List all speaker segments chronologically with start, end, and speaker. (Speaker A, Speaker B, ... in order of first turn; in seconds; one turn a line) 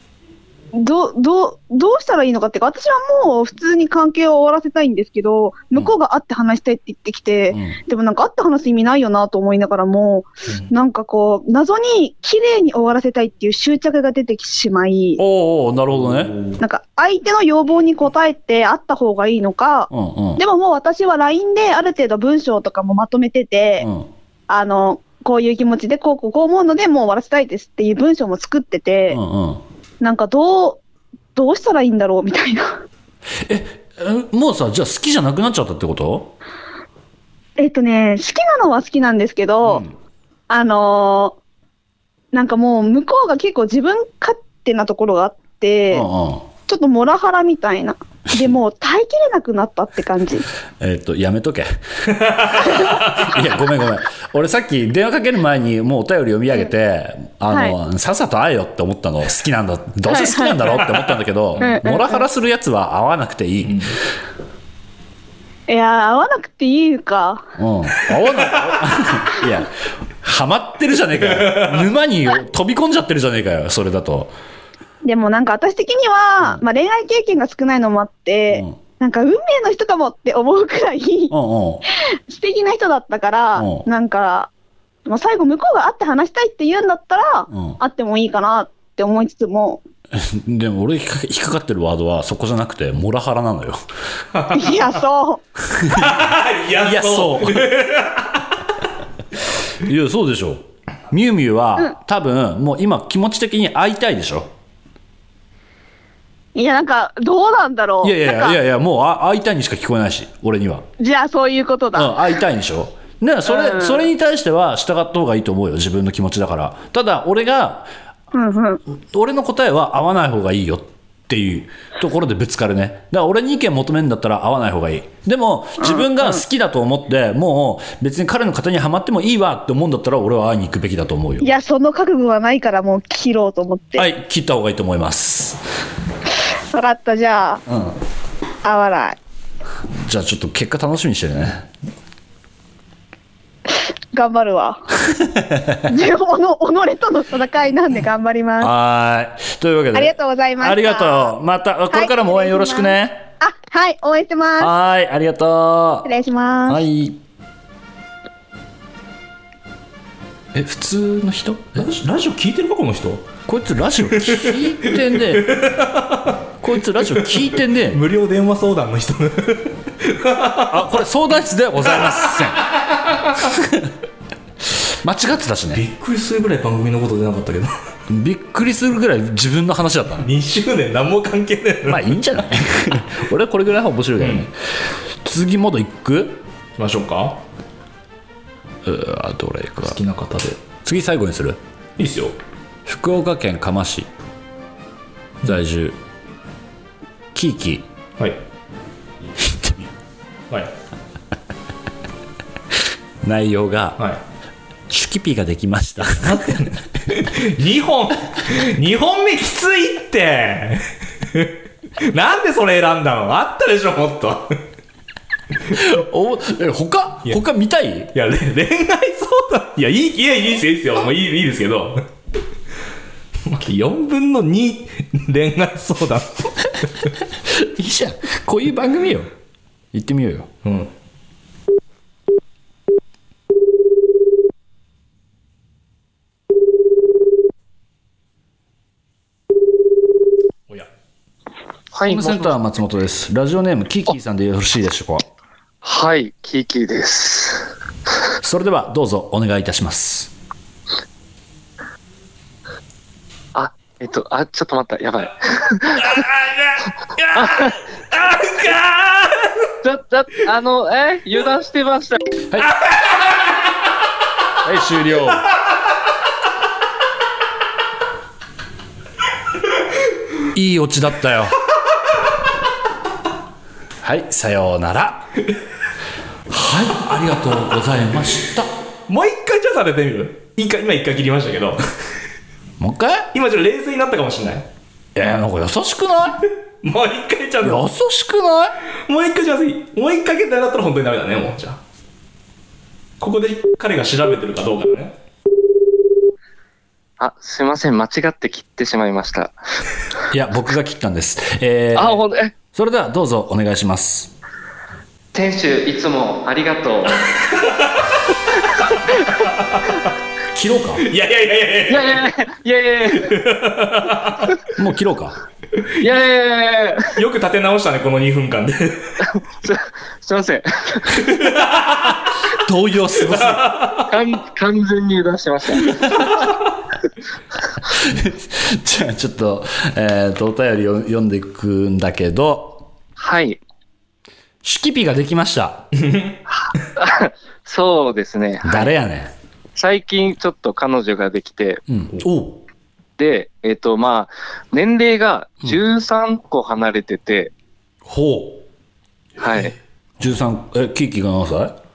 Speaker A: 0.7-15.2
Speaker B: 7.5-7.8
Speaker B: 15.2-16.4
Speaker C: 16.0-16.6
Speaker A: 16.6-23.9
Speaker B: 19.9-20.4
Speaker B: 23.8-24.1
Speaker A: 24.5-29.2
Speaker B: 29.1-29.6
Speaker A: 30.0-30.8
Speaker A: 31.4-32.8
Speaker B: 33.5-36.3
Speaker A: 37.6-39.8
Speaker B: 39.6-39.9
Speaker A: 40.5-41.4
Speaker A: 42.3-46.1
Speaker B: 45.9-46.4
Speaker A: 46.7-50.5
Speaker B: 50.8-51.7
Speaker C: 52.1-53.2
Speaker B: 52.3-64.0
Speaker A: 57.5-57.8
Speaker A: 60.1-60.9
Speaker A: 61.6-62.2
Speaker C: 63.6-63.9
Speaker A: 65.7-67.5
Speaker B: 67.6-74.3
Speaker C: 71.2-71.9
Speaker A: 75.0-81.3
Speaker B: 78.5-78.8
Speaker B: 81.3-81.8
Speaker A: 82.3-84.5
Speaker B: 83.5-83.8
Speaker A: 85.0-89.8
Speaker B: 87.5-87.8
Speaker B: 90.1-93.8
Speaker C: 94.3-94.9
Speaker A: 94.5-95.4
Speaker B: 95.7-96.1
Speaker C: 95.9-98.5
Speaker B: 96.8-97.7
Speaker B: 99.8-104.5
Speaker A: 106.5-108.6
Speaker B: 108.0-110.8
Speaker A: 111.0-112.2
Speaker B: 111.9-117.9
Speaker A: 113.5-114.1
Speaker A: 118.3-118.8
Speaker B: 118.9-131.5
Speaker A: 125.8-126.4
Speaker A: 131.4-134.1
Speaker B: 134.0-135.6
Speaker A: 136.7-137.6
Speaker B: 137.7-137.9
Speaker A: 138.6-139.2
Speaker B: 140.0-141.7
Speaker A: 144.1-144.9
Speaker B: 145.2-145.8
Speaker A: 145.9-148.7
Speaker B: 148.6-153.3
Speaker A: 149.9-151.3
Speaker A: 151.9-154.7
Speaker B: 154.6-156.1
Speaker A: 156.0-156.8
Speaker B: 156.7-157.2
Speaker B: 160.5-161.9
Speaker C: 161.8-163.3
Speaker B: 163.4-165.6
Speaker C: 164.2-166.4
Speaker B: 166.6-168.0
Speaker C: 166.9-171.0
Speaker B: 170.7-172.7
Speaker C: 171.9-173.3
Speaker B: 173.4-173.9
Speaker B: 175.0-175.8
Speaker C: 175.7-177.7
Speaker B: 178.1-180.3
Speaker C: 180.2-182.2
Speaker B: 181.9-186.4
Speaker C: 184.2-184.5
Speaker C: 186.8-187.4
Speaker B: 188.8-190.0
Speaker C: 189.8-190.6
Speaker B: 190.8-191.6
Speaker C: 192.0-192.4
Speaker B: 192.8-194.1
Speaker B: 195.4-195.9
Speaker B: 197.3-197.8
Speaker B: 199.4-199.9
Speaker B: 203.2-204.0
Speaker B: 204.9-206.7
Speaker C: 206.2-214.6
Speaker B: 215.7-218.1
Speaker C: 218.1-222.1
Speaker C: 223.4-226.8
Speaker B: 227.5-229.3
Speaker B: 229.9-230.5
Speaker C: 230.6-230.9
Speaker D: 241.9-242.6
Speaker B: 242.1-245.2
Speaker D: 245.8-247.7
Speaker B: 248.4-250.3
Speaker D: 253.5-256.2
Speaker D: 257.3-257.9
Speaker C: 258.1-259.7
Speaker D: 259.8-262.2
Speaker C: 262.9-263.3
Speaker B: 264.6-265.4
Speaker B: 270.5-271.6
Speaker B: 274.0-275.3
Speaker B: 276.5-278.7
Speaker C: 279.1-281.8
Speaker B: 282.8-283.3
Speaker C: 283.3-284.7
Speaker B: 285.1-286.4
Speaker C: 286.8-287.8
Speaker B: 287.6-288.8
Speaker C: 289.1-291.8
Speaker C: 293.2-295.2
Speaker D: 297.2-299.6
Speaker B: 300.3-302.2
Speaker D: 301.9-302.5
Speaker B: 302.7-304.3
Speaker D: 305.3-307.2
Speaker C: 307.5-308.1
Speaker D: 308.7-309.3
Speaker C: 309.4-310.0
Speaker B: 310.5-311.0
Speaker C: 311.0-312.2
Speaker D: 311.9-313.3
Speaker C: 313.1-314.5
Speaker B: 314.8-315.4
Speaker D: 316.0-317.1
Speaker C: 317.1-319.2
Speaker D: 319.2-321.3
Speaker C: 321.3-322.0
Speaker B: 322.5-323.8
Speaker C: 323.3-324.0
Speaker D: 324.1-326.0
Speaker B: 326.1-326.4
Speaker B: 327.9-332.9
Speaker D: 333.2-333.6
Speaker B: 334.6-335.9
Speaker C: 336.0-336.3
Speaker D: 336.5-338.9
Speaker B: 338.6-339.3
Speaker D: 339.7-341.8
Speaker B: 341.9-342.6
Speaker D: 343.2-347.5
Speaker B: 348.1-348.6
Speaker D: 349.4-349.7
Speaker B: 350.2-351.7